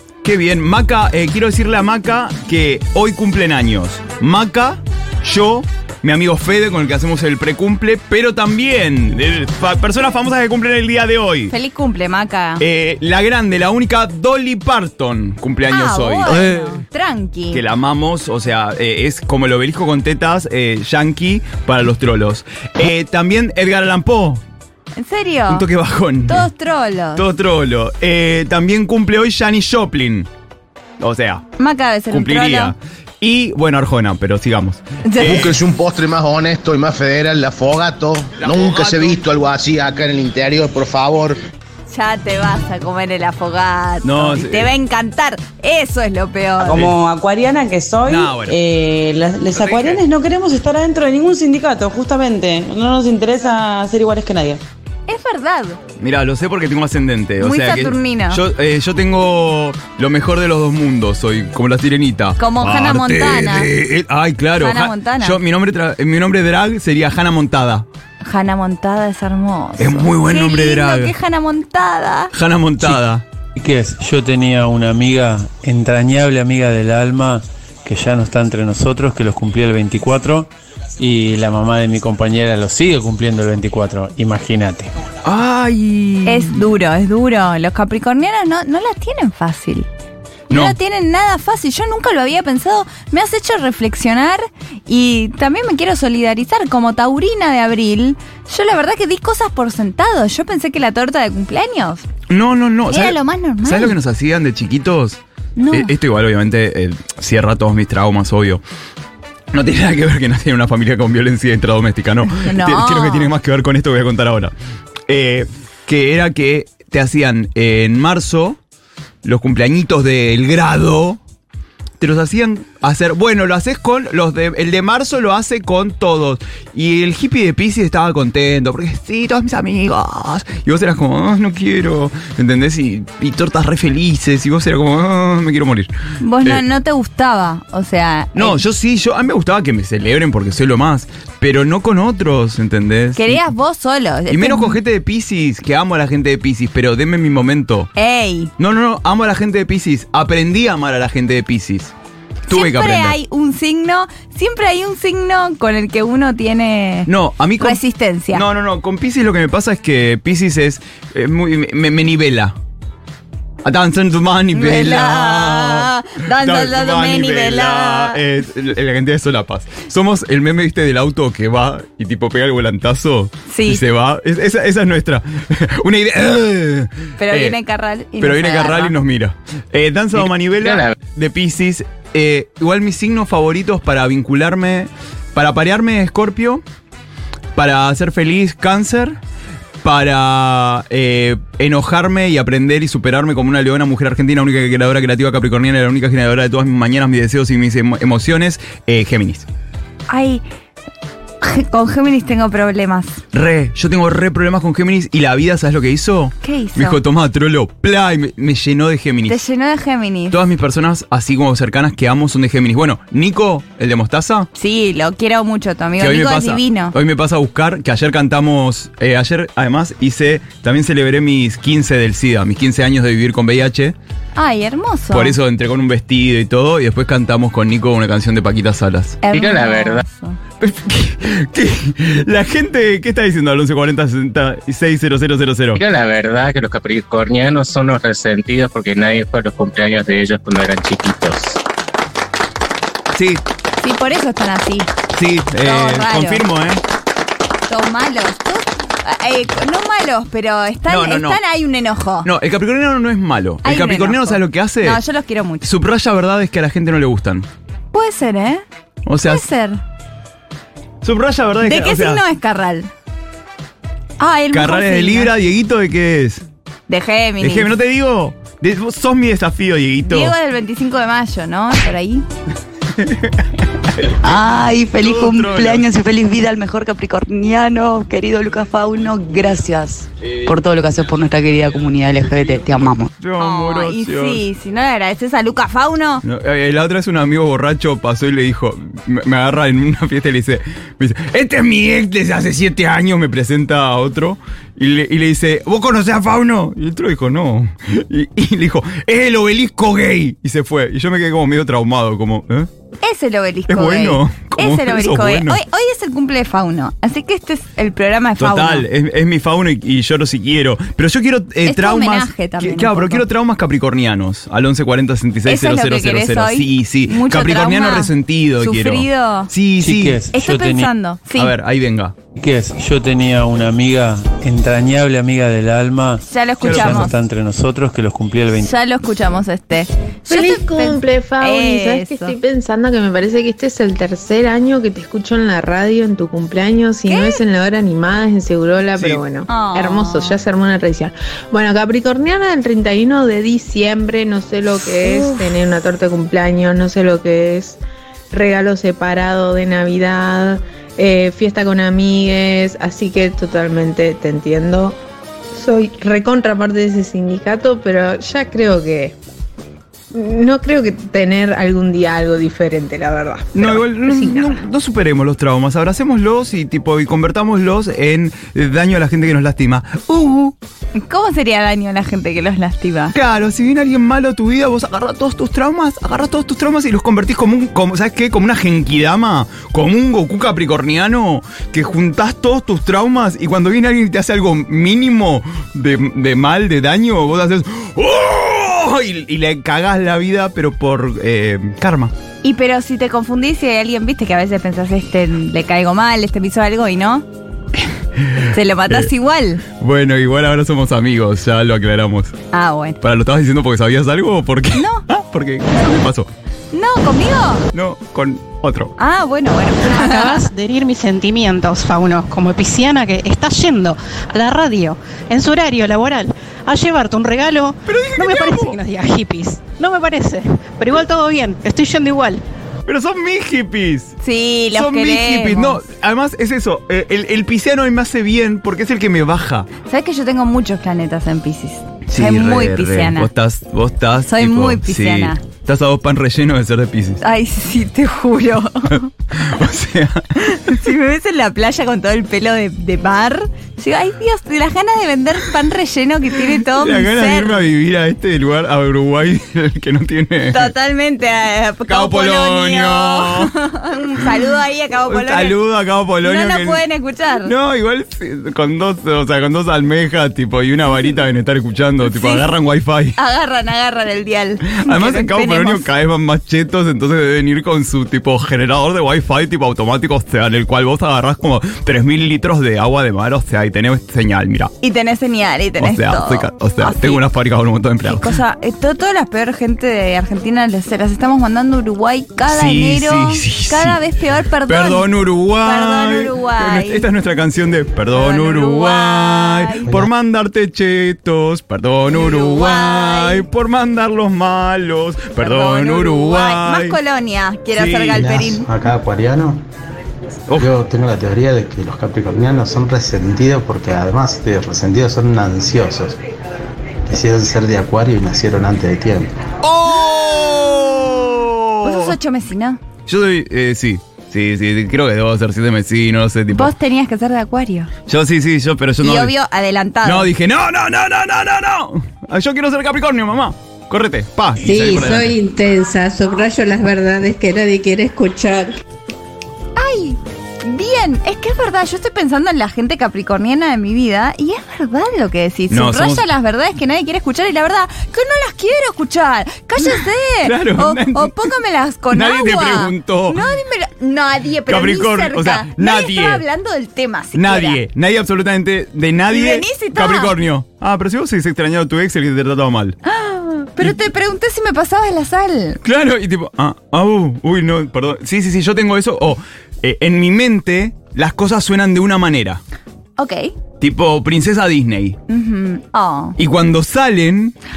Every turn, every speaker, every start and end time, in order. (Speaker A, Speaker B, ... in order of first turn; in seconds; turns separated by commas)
Speaker A: 0.2-11.5, Speaker B: 11.5-12.6, Speaker A: 12.6-16.8, Speaker B: 15.7-17.6, Speaker A: 17.5-24.4, Speaker B: 25.0-25.6, Speaker A: 25.5-26.5, Speaker B: 26.3-27.2, Speaker A: 27.1-30.3, Speaker A: 31.0-31.4, Speaker B: 31.6-32.7, Speaker A: 32.1-35.5, Speaker B: 35.1-35.5, Speaker C: 35.2-41.4, Speaker A: 38.4-39.2, Speaker B: 41.9-46.9, Speaker A: 44.0-44.7, Speaker D: 46.6-54.6, Speaker A: 48.1-48.5, Speaker A: 49.5-50.0, Speaker B: 55.1-55.8, Speaker A: 56.0-67.8, Speaker B: 57.4-58.4, Speaker B: 62.4-63.7, Speaker B: 64.6-65.4, Speaker B: 68.2-72.3, Speaker A: 69.8-71.1, Speaker A: 72.3-73.2, Speaker E: 73.5-84.9, Speaker A: 85.2-86.6, Speaker B: 86.2-89.9, Speaker A: 90.5-90.7, Speaker B: 90.5-102.0, Speaker A: 102.3-105.2, Speaker B: 102.9-103.9, Speaker B: 105.5-105.9, Speaker A: 105.7-108.6, Speaker A: 109.5-114.5, Speaker B: 112.4-113.3, Speaker A: 115.1-118.6, Speaker A: 119.2-121.2, Speaker A: 122.0-135.9, Speaker B: 136.2-138.6, Speaker A: 138.3-143.4, Speaker B: 143.2-144.8, Speaker A: 144.3-147.9, Speaker B: 147.9-148.5, Speaker A: 148.6-151.9, Speaker A: 152.5-153.2, Speaker B: 152.5-157.1, Speaker A: 157.1-157.8, Speaker B: 157.6-158.4, Speaker A: 158.3-162.5, Speaker A: 163.6-177.6, Speaker B: 164.5-168.2, Speaker B: 173.5-173.8, Speaker B: 177.2-178.9, Speaker A: 178.2-186.6, Speaker F: 180.6-180.9, Speaker A: 187.6-189.2, Speaker A: 189.8-199.5, Speaker B: 200.1-200.4, Speaker B: 201.4-203.2, Speaker A: 203.3-209.4, Speaker B: 206.4-207.0, Speaker B: 209.3-210.3, Speaker A: 210.3-214.5, Speaker B: 214.6-216.9, Speaker A: 216.0-223.9, Speaker B: 224.3-225.3, Speaker A: 225.1-229.2, Speaker B: 229.2-230.4, Speaker F: 229.3-230.0, Speaker A: 230.6-235.8, Speaker F: 235.7-241.6, Speaker A: 243.1-243.4, Speaker B: 243.8-244.9, Speaker A: 245.1-246.8, Speaker B: 245.6-246.4, Speaker B: 247.7-252.3, Speaker A: 250.9-251.4, Speaker A: 252.2-255.0, Speaker B: 253.6-255.7, Speaker A: 255.6-257.5, Speaker B: 257.9-258.6, Speaker A: 259.1-259.4, Speaker B: 259.2-259.8, Speaker A: 261.0-262.2, Speaker B: 261.6-262.9, Speaker B: 264.2-265.3, Speaker A: 264.5-266.4, Speaker B: 266.9-267.7, Speaker A: 267.4-270.3, Speaker B: 270.1-272.2, Speaker A: 273.0-273.3, Speaker G: 274.2-283.1, Speaker A: 274.9-275.9, Speaker A: 283.2-284.4, Speaker B: 283.4-286.2, Speaker A: 286.2-302.7, Speaker B: 303.0-308.9, Speaker A: 303.7-305.6, Speaker A: 308.4-320.2, Speaker B: 311.6-313.2, Speaker B: 315.4-319.5, Speaker E: 319.8-320.9, Speaker B: 320.3-321.5, Speaker A: 321.3-322.1, Speaker E: 322.4-328.7, Speaker B: 326.3-327.1, Speaker A: 326.6-327.1, Speaker B: 328.5-332.3, Speaker H: 330.3-347.8, Speaker B: 337.1-337.4, Speaker A: 339.0-339.2, Speaker B: 339.5-340.4, Speaker B: 345.0-345.4, Speaker H: 348.3-355.0, Speaker H: 355.5-359.1, Speaker H: 360.1-364.6, Speaker A: 363.5-370.6, Speaker B: 371.0-373.1, Speaker A: 373.1-392.1, Speaker B: 392.4-397.2, Speaker A: 398.2-399.1, Speaker B: 398.5-399.6, Speaker A: 399.7-402.3, Speaker B: 402.5-403.0, Speaker A: 403.0-406.3, Speaker B: 404.7-405.0, Speaker B: 406.7-407.7, Speaker A: 407.7-408.9, Speaker B: 409.0-410.5, Speaker I: 409.8-422.4, Speaker A: 417.8-418.8, Speaker A: 422.9-424.1, Speaker B: 424.2-425.8, Speaker A: 424.7-429.7, Speaker B: 429.8-433.3, Speaker A: 432.1-437.2, Speaker B: 434.3-435.4, Speaker B: 437.2-439.1, Speaker A: 438.9-440.7, Speaker B: 440.4-447.6, Speaker A: 446.5-450.7, Speaker B: 450.5-455.6, Speaker A: 451.9-453.5, Speaker A: 455.1-456.8, Speaker B: 456.2-457.5, Speaker A: 457.4-463.2, Speaker B: 462.0-462.5, Speaker B: 463.2-465.9, Speaker A: 464.7-474.7, Speaker B: 474.8-477.2, Speaker A: 475.8-478.3, Speaker B: 478.0-485.1, Speaker A: 482.5-484.0, Speaker A: 484.7-497.0, Speaker B: 485.6-487.1, Speaker B: 488.1-489.9, Speaker B: 492.1-493.4, Speaker B: 495.4-498.7, Speaker A: 497.7-498.3, Speaker J: 498.1-499.6, Speaker J: 500.6-506.2, Speaker J: 507.1-509.3, Speaker A: 509.6-512.1, Speaker B: 511.8-512.8, Speaker A: 513.1-516.7, Speaker B: 516.5-517.9, Speaker A: 518.1-519.3, Speaker B: 519.0-520.3, Speaker A: 520.0-525.4, Speaker K: 524.6-528.8, Speaker B: 529.8-547.8, Speaker A: 535.7-536.2, Speaker A: 539.8-541.3, Speaker A: 542.1-543.4, Speaker A: 544.7-546.4, Speaker A: 547.3-553.0, Speaker B: 549.3-550.3, Speaker B: 553.0-555.8, Speaker A: 555.8-562.6, Speaker B: 563.2-563.5, Speaker A: 563.8-565.2, Speaker B: 565.3-566.4, Speaker A: 566.4-567.5